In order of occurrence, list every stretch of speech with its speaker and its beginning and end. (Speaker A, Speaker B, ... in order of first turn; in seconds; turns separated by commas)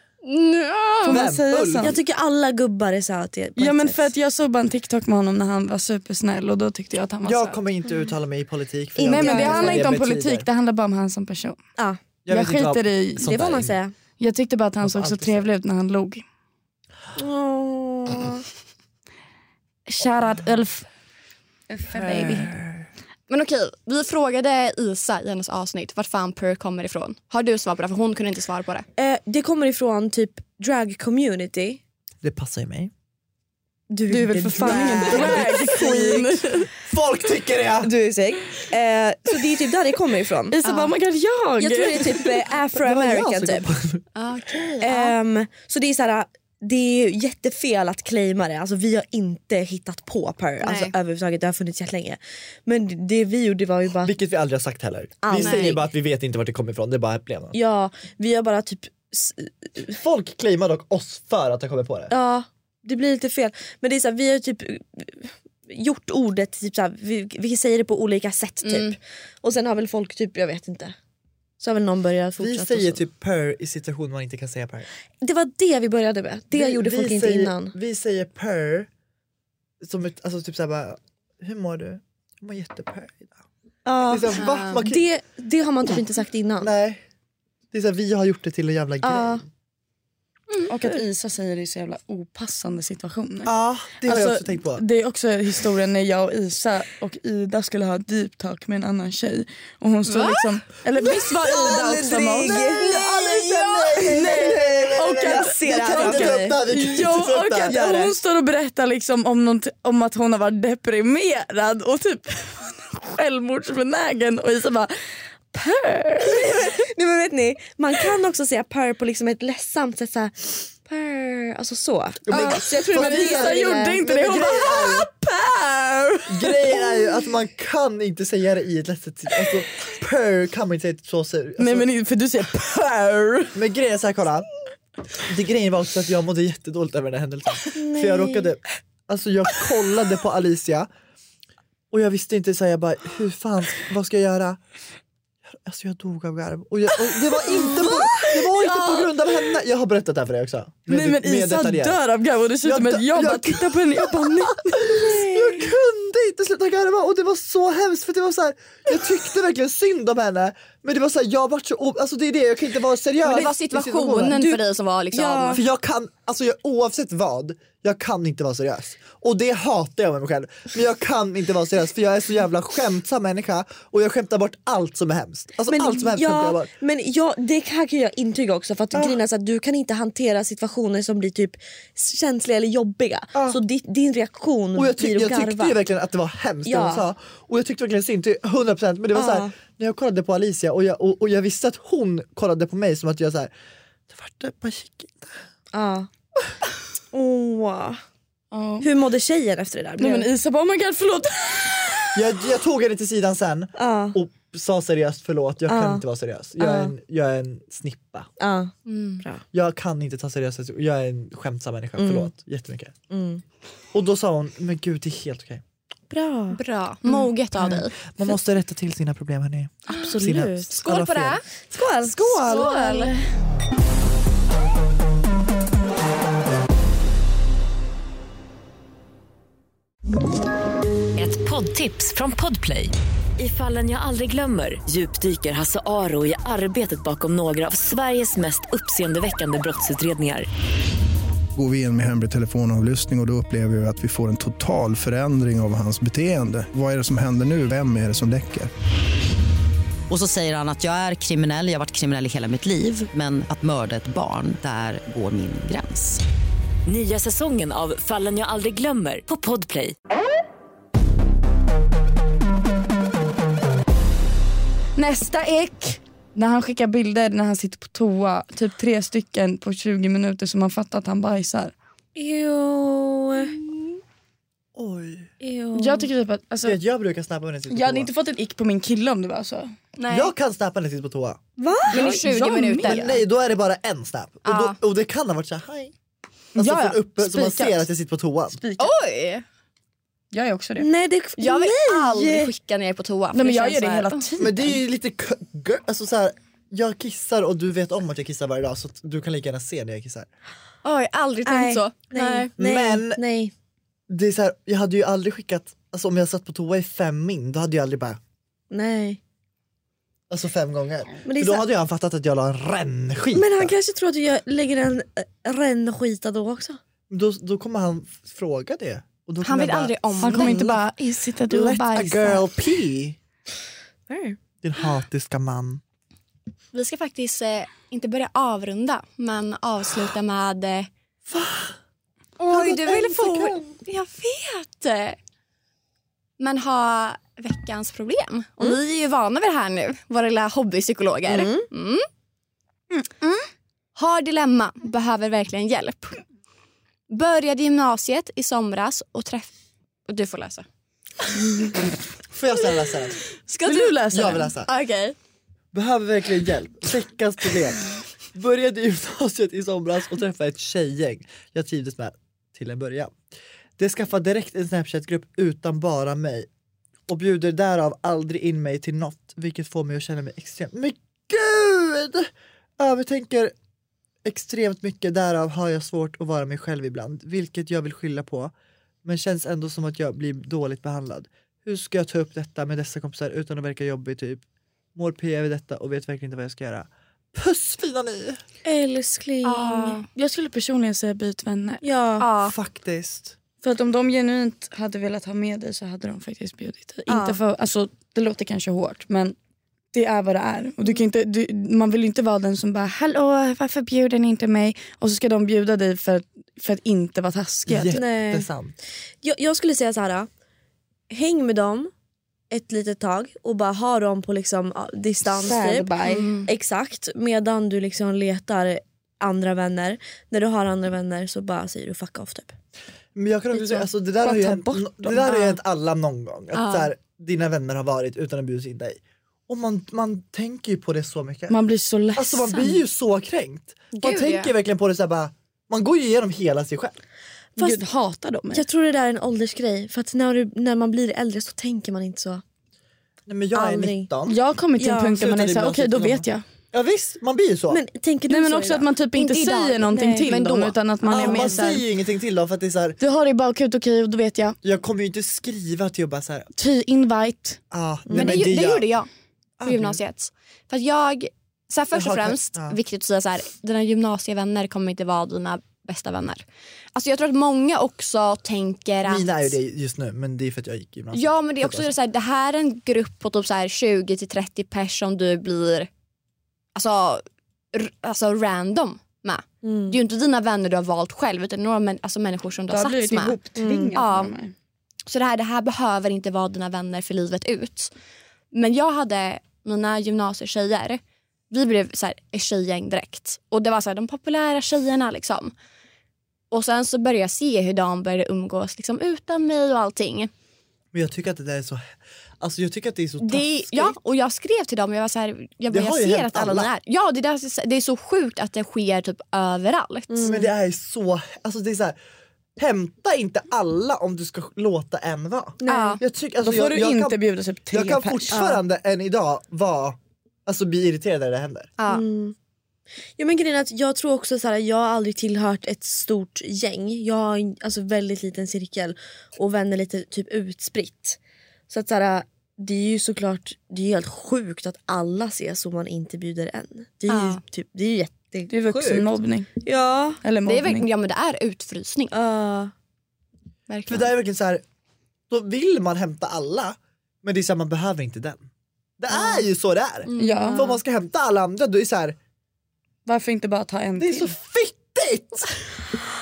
Speaker A: 0.2-1.2, Speaker B: 1.0-2.0, Speaker C: 1.1-1.9, Speaker D: 1.8-4.1, Speaker B: 3.6-7.6, Speaker C: 7.2-10.4, Speaker B: 9.0-11.6, Speaker D: 9.2-9.9, Speaker D: 11.8-12.0, Speaker C: 12.2-13.8, Speaker B: 12.3-13.3, Speaker D: 13.2-13.9, Speaker B: 14.2-16.2, Speaker C: 14.8-15.5, Speaker D: 17.1-18.4, Speaker B: 19.9-20.9, Speaker B: 21.7-22.5, Speaker C: 21.9-22.9, Speaker A: 23.3-28.9, Speaker D: 28.9-31.8, Speaker C: 32.2-32.9, Speaker D: 33.9-36.6, Speaker B: 34.1-36.7, Speaker C: 34.7-35.8, Speaker C: 36.8-37.9, Speaker D: 37.8-40.6, Speaker B: 40.5-42.5, Speaker A: 40.6-41.0, Speaker D: 41.5-43.7, Speaker C: 42.8-44.0, Speaker A: 44.1-45.1, Speaker D: 44.8-54.1, Speaker C: 50.6-50.9, Speaker C: 54.0-57.5, Speaker D: 55.2-55.9, Speaker A: 55.3-55.8, Speaker D: 57.5-59.9, Speaker C: 59.9-62.1, Speaker D: 62.1-71.0, Speaker A: 68.6-69.0, Speaker D: 71.6-73.0, Speaker C: 72.4-74.9, Speaker D: 75.2-77.8, Speaker C: 76.5-78.9, Speaker C: 79.8-83.4, Speaker D: 83.8-86.7, Speaker C: 84.0-85.0, Speaker A: 84.4-84.8, Speaker C: 86.6-87.0, Speaker C: 87.7-89.5, Speaker D: 89.0-89.4, Speaker B: 90.7-102.7, Speaker C: 93.5-94.8, Speaker A: 100.1-100.5, Speaker D: 101.0-107.0, Speaker C: 102.7-108.1, Speaker B: 104.1-114.9, Speaker D: 107.6-108.1, Speaker B: 115.5-116.7, Speaker D: 116.2-124.7, Speaker C: 122.3-125.1, Speaker B: 122.3-126.7, Speaker C: 126.3-131.9, Speaker D: 126.7-127.1, Speaker B: 131.6-133.5, Speaker C: 133.5-134.5, Speaker C: 135.2-140.9, Speaker D: 137.7-138.5, Speaker C: 141.9-144.6, Speaker C: 145.5-152.0, Speaker B: 147.5-148.9, Speaker B: 150.9-155.0, Speaker C: 152.6-164.6, Speaker D: 154.9-155.7, Speaker A: 163.2-165.6, Speaker D: 165.1-165.6, Speaker C: 165.5-176.7, Speaker D: 175.7-185.8, Speaker C: 178.9-179.2, Speaker C: 184.8-193.5, Speaker D: 186.6-187.1, Speaker D: 189.1-189.5, Speaker C: 194.1-195.3, Speaker D: 195.7-196.1, Speaker D: 197.1-198.0, Speaker B: 198.5-198.9, Speaker D: 198.8-200.3, Speaker B: 200.0-202.2, Speaker C: 202.1-208.3, Speaker D: 203.8-204.2, Speaker D: 205.7-206.0, Speaker D: 206.6-206.9, Speaker D: 208.4-209.4, Speaker A: 208.9-209.2, Speaker C: 209.5-213.0, Speaker D: 212.0-212.3, Speaker D: 213.1-213.4, Speaker C: 213.9-215.6, Speaker D: 216.1-216.6, Speaker A: 216.5-217.9, Speaker C: 217.6-221.4, Speaker A: 219.9-220.2, Speaker D: 219.9-220.7, Speaker A: 220.7-221.4, Speaker D: 221.7-223.1, Speaker C: 221.9-222.9, Speaker A: 222.3-223.3, Speaker E: 231.2-240.5, Speaker F: 241.5-248.7, Speaker G: 250.1-256.2, Speaker E: 256.9-259.9, Speaker B: 264.9-271.7, Speaker D: 272.1-273.6, Speaker C: 274.7-275.3, Speaker D: 275.4-276.1, Speaker B: 275.8-276.8, Speaker C: 276.6-278.1, Speaker B: 277.7-279.7, Speaker A: 280.0-280.3, Speaker C: 280.1-281.4, Speaker D: 281.6-282.2, Speaker B: 281.9-283.0, Speaker A: 281.9-283.2, Speaker C: 282.8-285.9, Speaker A: 284.4-284.8, Speaker B: 286.6-287.9, Speaker C: 286.6-288.6, Speaker B: 288.6-288.9, Speaker A: 288.8-289.4, Speaker B: 290.3-290.9, Speaker D: 290.8-292.5, Speaker A: 291.4-294.3, Speaker B: 293.3-294.8, Speaker C: 294.4-300.3, Speaker A: 300.8-302.5, Speaker D: 301.4-303.5, Speaker C: 302.6-303.2, Speaker C: 304.1-308.2, Speaker D: 308.7-309.2, Speaker C: 310.3-313.7, Speaker D: 311.2-311.7, Speaker D: 313.3-316.8, Speaker C: 317.1-320.8, Speaker A: 319.4-320.6, Speaker B: 320.2-322.5, Speaker C: 321.5-323.2, Speaker D: 324.1-324.4, Speaker C: 324.6-325.8, Speaker A: 326.7-330.9, Speaker C: 331.3-331.8, Speaker A: 332.4-335.2, Speaker C: 332.5-333.6, Speaker A: 336.4-342.1, Speaker D: 341.3-341.6, Speaker B: 342.9-343.4, Speaker A: 343.9-346.2, Speaker A: 347.1-349.5, Speaker A: 350.1-350.6, Speaker C: 352.3-353.2, Speaker A: 353.5-355.1, Speaker B: 353.6-354.5, Speaker C: 354.1-354.7, Speaker C: 355.7-363.1, Speaker C: 363.8-366.5, Speaker C: 367.1-373.5, Speaker C: 374.2-378.5, Speaker C: 379.0-384.4, Speaker C: 384.9-388.4, Speaker D: 388.6-390.0, Speaker A: 389.4-390.1, Speaker B: 390.1-391.8, Speaker D: 391.8-392.3, Speaker A: 392.2-392.5, Speaker C: 392.4-393.4, Speaker B: 393.6-399.4, Speaker D: 397.1-397.4, Speaker B: 399.9-408.0, Speaker C: 407.6-408.7, Speaker D: 407.9-408.5, Speaker D: 409.2-410.3, Speaker D: 411.1-411.9, Speaker D: 412.5-422.6, Speaker B: 415.3-416.3, Speaker A: 416.0-416.5, Speaker C: 423.1-431.6, Speaker B: 423.5-425.6, Speaker A: 426.5-426.9, Speaker B: 431.5-432.8, Speaker C: 432.1-436.9, Speaker A: 434.0-434.5, Speaker D: 437.6-437.8, Speaker B: 437.6-438.6, Speaker D: 438.5-442.4, Speaker C: 443.2-444.4, Speaker D: 443.5-444.1, Speaker B: 444.3-446.4, Speaker D: 444.8-445.2, Speaker C: 445.1-447.8, Speaker D: 447.7-448.9, Speaker B: 448.3-451.8, Speaker A: 449.1-451.7, Speaker D: 449.8-450.4, Speaker C: 451.1-453.0, Speaker B: 453.0-454.6, Speaker C: 454.6-456.5, Speaker B: 456.6-457.6, Speaker C: 457.7-458.9, Speaker D: 458.1-458.5, Speaker A: 458.1-459.1, Speaker C: 459.6-460.0, Speaker A: 459.6-466.4, Speaker C: 461.9-462.8, Speaker A: 466.9-469.5, Speaker C: 469.0-471.9, Speaker A: 471.1-475.9, Speaker A: 476.7-483.4, Speaker D: 479.6-480.0, Speaker B: 482.7-484.5, Speaker D: 483.6-483.9, Speaker A: 483.9-484.4, Speaker A: 485.1-487.9, Speaker A: 488.5-495.5, Speaker A: 496.5-500.3, Speaker C: 500.9-501.9, Speaker C: 502.4-503.9, Speaker A: 503.2-510.4, Speaker C: 505.7-506.7, Speaker D: 510.1-510.5, Speaker C: 510.2-512.0, Speaker C: 512.6-521.7, Speaker D: 515.6-516.0, Speaker A: 515.7-516.0, Speaker B: 516.4-518.4, Speaker D: 518.3-518.6, Speaker A: 521.8-522.0, Speaker D: 521.9-522.3, Speaker D: 523.2-538.5, Speaker A: 537.1-537.4, Speaker B: 538.5-539.5, Speaker C: 538.7-539.0, Speaker D: 539.6-540.2, Speaker B: 540.2-540.9, Speaker A: 540.5-542.1, Speaker D: 542.1-542.7, Speaker A: 543.7-544.1, Speaker C: 543.9-544.6, Speaker C: 545.3-548.4, Speaker C: 549.0-552.1, Speaker D: 549.1-549.4, Speaker A: 550.1-550.6, Speaker B: 550.2-550.7, Speaker D: 550.2-550.8, Speaker B: 553.0-554.3, Speaker C: 554.0-555.6